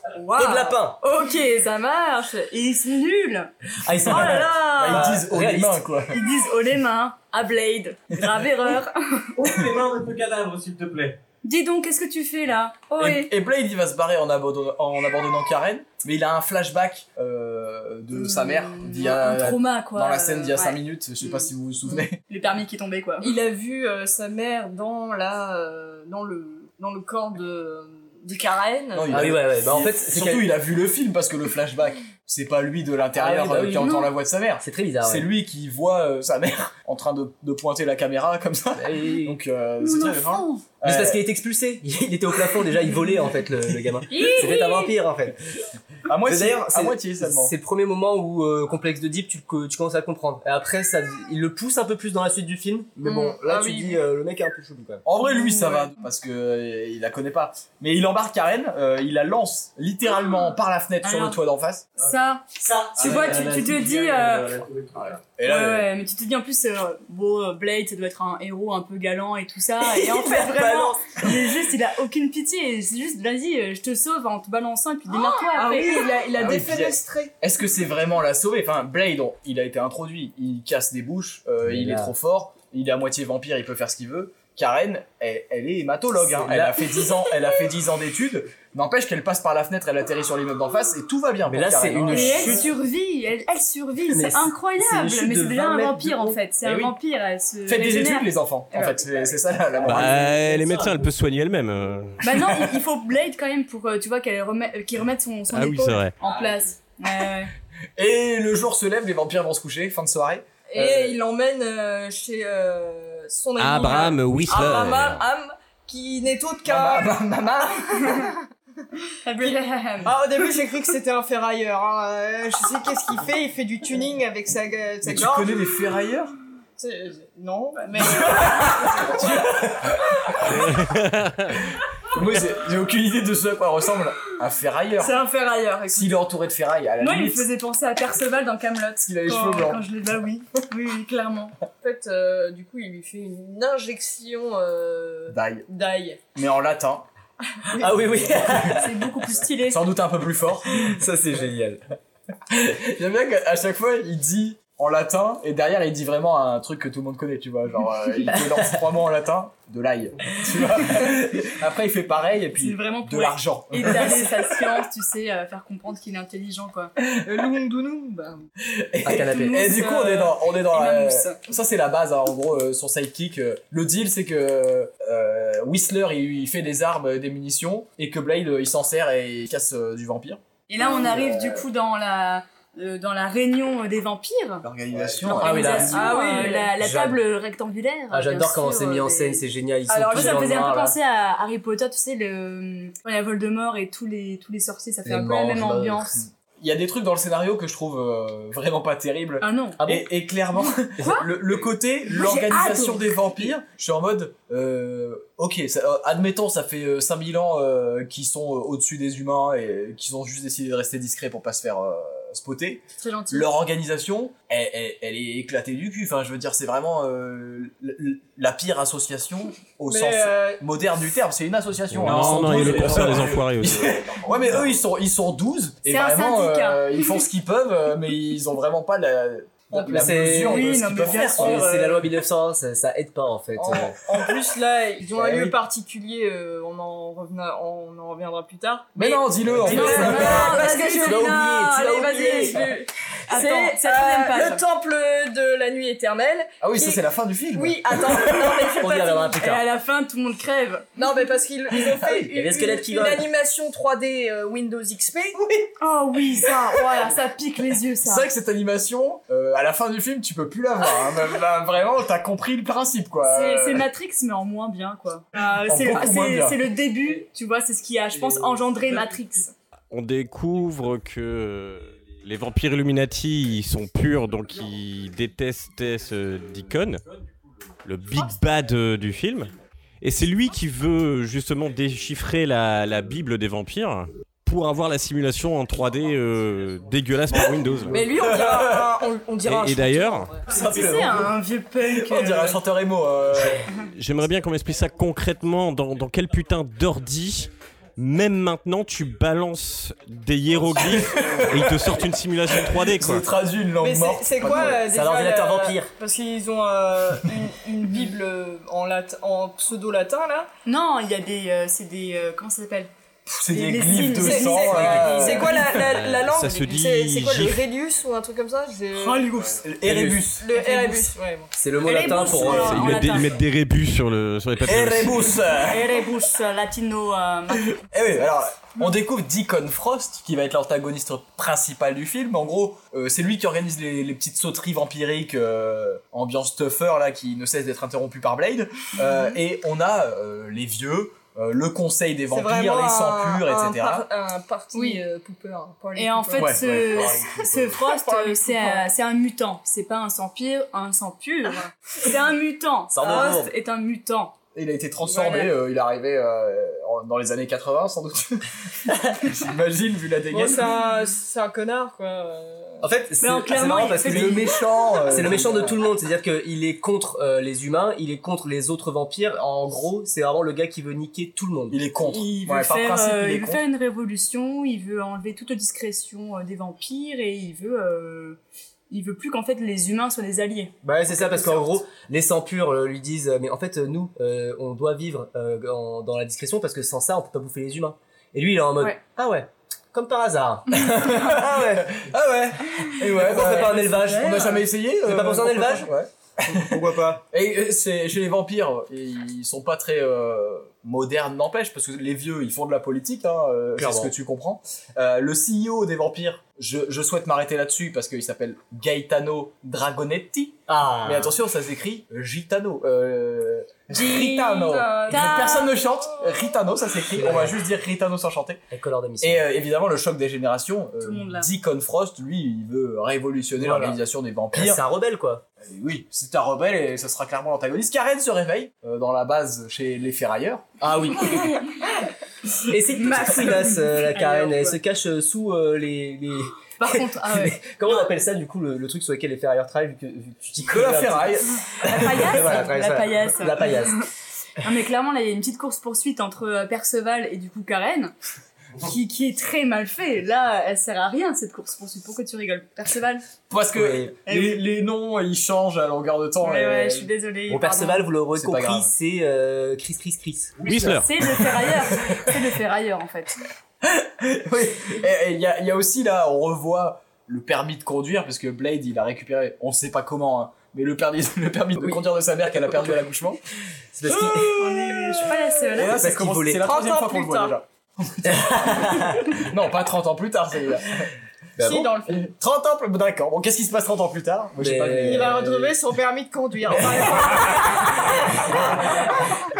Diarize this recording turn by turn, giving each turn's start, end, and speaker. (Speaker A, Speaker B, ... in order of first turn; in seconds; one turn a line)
Speaker A: 0.2-3.5
Speaker B: 0.3-1.0
Speaker B: 3.8-5.8
Speaker A: 4.0-5.2
Speaker C: 4.1-6.2
Speaker A: 6.1-9.4
Speaker D: 9.4-11.2
Speaker A: 11.4-13.3
Speaker C: 13.0-22.2
Speaker A: 18.1-21.5
Speaker A: 22.2-23.4
Speaker E: 23.2-29.2
Speaker C: 28.9-41.2
Speaker B: 29.1-30.5
Speaker B: 33.2-34.0
Speaker A: 33.8-34.1
Speaker B: 34.6-35.3
Speaker B: 38.8-39.4
Speaker A: 39.8-40.6
Speaker B: 40.8-45.4
Speaker A: 44.1-44.9
Speaker C: 46.1-47.5
Speaker B: 46.3-55.0
Speaker E: 53.0-54.0
Speaker C: 55.0-61.9
Speaker A: 55.2-56.0
Speaker A: 61.0-61.4
Speaker A: 62.0-62.5
Speaker B: 62.6-63.8
Speaker A: 63.0-64.6
Speaker D: 63.1-65.1
Speaker C: 65.0-65.9
Speaker A: 65.4-76.1
Speaker B: 69.8-71.5
Speaker E: 75.1-77.3
Speaker C: 76.4-92.5
Speaker B: 81.7-82.1
Speaker B: 86.3-86.8
Speaker B: 91.5-92.7
Speaker A: 92.1-99.0
Speaker B: 94.1-96.4
Speaker C: 96.6-97.0
Speaker C: 97.7-100.9
Speaker F: 99.8-102.2
Speaker A: 102.2-107.5
Speaker C: 102.3-102.7
Speaker F: 105.5-106.1
Speaker C: 108.0-111.2
Speaker E: 110.7-117.2
Speaker F: 113.6-115.2
Speaker C: 116.7-118.3
Speaker A: 119.2-120.1
Speaker E: 119.4-125.6
Speaker C: 125.0-126.3
Speaker E: 126.8-129.2
Speaker A: 127.8-129.2
Speaker C: 128.2-130.8
Speaker F: 130.8-131.6
Speaker C: 132.1-135.2
Speaker A: 135.0-136.2
Speaker C: 135.9-137.5
Speaker A: 137.0-141.6
Speaker C: 139.0-139.9
Speaker E: 141.8-146.2
Speaker C: 145.3-145.7
Speaker C: 146.3-147.1
Speaker B: 147.7-148.9
Speaker C: 148.4-148.9
Speaker A: 148.7-149.8
Speaker C: 149.7-151.0
Speaker B: 150.8-151.8
Speaker C: 152.5-164.5
Speaker B: 158.3-158.7
Speaker A: 162.5-166.9
Speaker E: 167.1-168.5
Speaker C: 168.6-181.7
Speaker B: 169.0-169.6
Speaker A: 169.4-171.4
Speaker A: 180.7-184.7
Speaker C: 184.6-186.0
Speaker B: 185.1-187.2
Speaker A: 185.3-196.2
Speaker E: 185.9-186.7
Speaker B: 188.1-191.0
Speaker E: 190.0-190.4
Speaker B: 195.1-196.2
Speaker C: 196.6-231.7
Speaker A: 199.4-199.8
Speaker B: 199.8-200.1
Speaker A: 201.0-201.3
Speaker A: 202.1-203.2
Speaker A: 213.0-213.5
Speaker E: 219.9-220.6
Speaker F: 221.9-223.9
Speaker D: 222.1-222.6
Speaker A: 225.9-227.2
Speaker E: 229.7-230.1
Speaker B: 229.7-234.0
Speaker A: 230.4-232.0
Speaker E: 233.6-247.0
Speaker C: 235.2-235.5
Speaker C: 238.9-241.7
Speaker B: 239.4-240.4
Speaker A: 239.6-242.6
Speaker B: 241.0-241.5
Speaker A: 243.3-244.6
Speaker C: 246.6-248.6
Speaker E: 247.5-249.4
Speaker B: 248.8-249.6
Speaker A: 249.3-250.9
Speaker E: 251.0-255.4
Speaker C: 251.9-252.3
Speaker B: 252.3-253.2
Speaker C: 255.4-255.7
Speaker A: 255.8-258.3
Speaker C: 258.0-263.9
Speaker A: 263.2-269.5
Speaker C: 265.4-266.6
Speaker F: 269.9-277.0
Speaker F: 277.8-288.0
Speaker E: 287.9-290.6
Speaker C: 288.1-288.9
Speaker F: 289.4-290.3
Speaker B: 290.5-291.3
Speaker A: 290.5-292.6
Speaker C: 291.9-293.6
Speaker F: 293.8-303.3
Speaker C: 300.7-304.8
Speaker E: 303.8-310.5
Speaker B: 304.5-305.9
Speaker A: 310.6-312.9
Speaker C: 313.3-316.0
Speaker A: 313.5-315.6
Speaker E: 314.2-319.5
Speaker F: 315.8-317.6
Speaker A: 319.0-319.6
Speaker C: 319.6-320.5
Speaker B: 319.8-320.3
Speaker E: 320.4-321.5
Speaker A: 320.5-321.1
Speaker B: 321.6-323.2
Speaker A: 321.8-323.4
Speaker E: 322.1-322.4
Speaker F: 322.5-325.3
Speaker C: 324.6-326.0
Speaker A: 325.5-327.7
Speaker C: 327.5-344.1
Speaker E: 342.3-348.9
Speaker A: 344.7-345.0
Speaker A: 345.9-354.4
Speaker C: 346.4-347.2
Speaker B: 352.9-353.5
Speaker E: 353.0-353.4
Speaker C: 354.5-360.7
Speaker E: 355.0-355.5
Speaker E: 360.3-362.9
Speaker B: 362.8-371.8
Speaker A: 363.2-364.9
Speaker C: 364.0-365.8
Speaker C: 371.7-373.6
Speaker A: 372.0-378.4
Speaker A: 378.9-380.7
Speaker B: 380.8-392.0
Speaker C: 390.8-418.6
Speaker B: 393.0-395.9
Speaker A: 393.9-394.6
Speaker B: 396.4-397.2
Speaker B: 403.8-404.1
Speaker B: 410.7-411.3
Speaker A: 413.9-415.7
Speaker E: 413.9-416.4
Speaker B: 417.1-417.6
Speaker B: 418.7-419.5
Speaker C: 419.2-424.8
Speaker A: 421.0-421.5
Speaker B: 423.6-424.0
Speaker B: 424.5-425.4
Speaker C: 425.6-430.7
Speaker B: 430.8-431.6
Speaker B: 432.7-444.0
Speaker A: 432.9-434.8
Speaker A: 436.8-438.1
Speaker C: 440.7-442.3
Speaker A: 441.8-444.0
Speaker A: 444.6-448.1
Speaker A: 448.8-453.2
Speaker C: 453.5-457.1
Speaker B: 453.7-454.2
Speaker A: 454.3-454.6
Speaker A: 456.4-458.1
Speaker B: 457.5-460.9
Speaker C: 458.3-458.9
Speaker F: 460.7-461.1
Speaker A: 460.7-463.4
Speaker C: 463.8-473.4
Speaker B: 472.6-472.9
Speaker B: 473.9-474.6
Speaker C: 474.1-481.1
Speaker A: 474.5-476.0
Speaker B: 475.8-476.6
Speaker E: 476.6-477.6
Speaker B: 478.2-479.4
Speaker B: 481.6-481.9
Speaker E: 481.6-482.3
Speaker C: 482.1-485.4
Speaker B: 484.6-485.8
Speaker E: 485.0-488.1
Speaker C: 488.5-489.0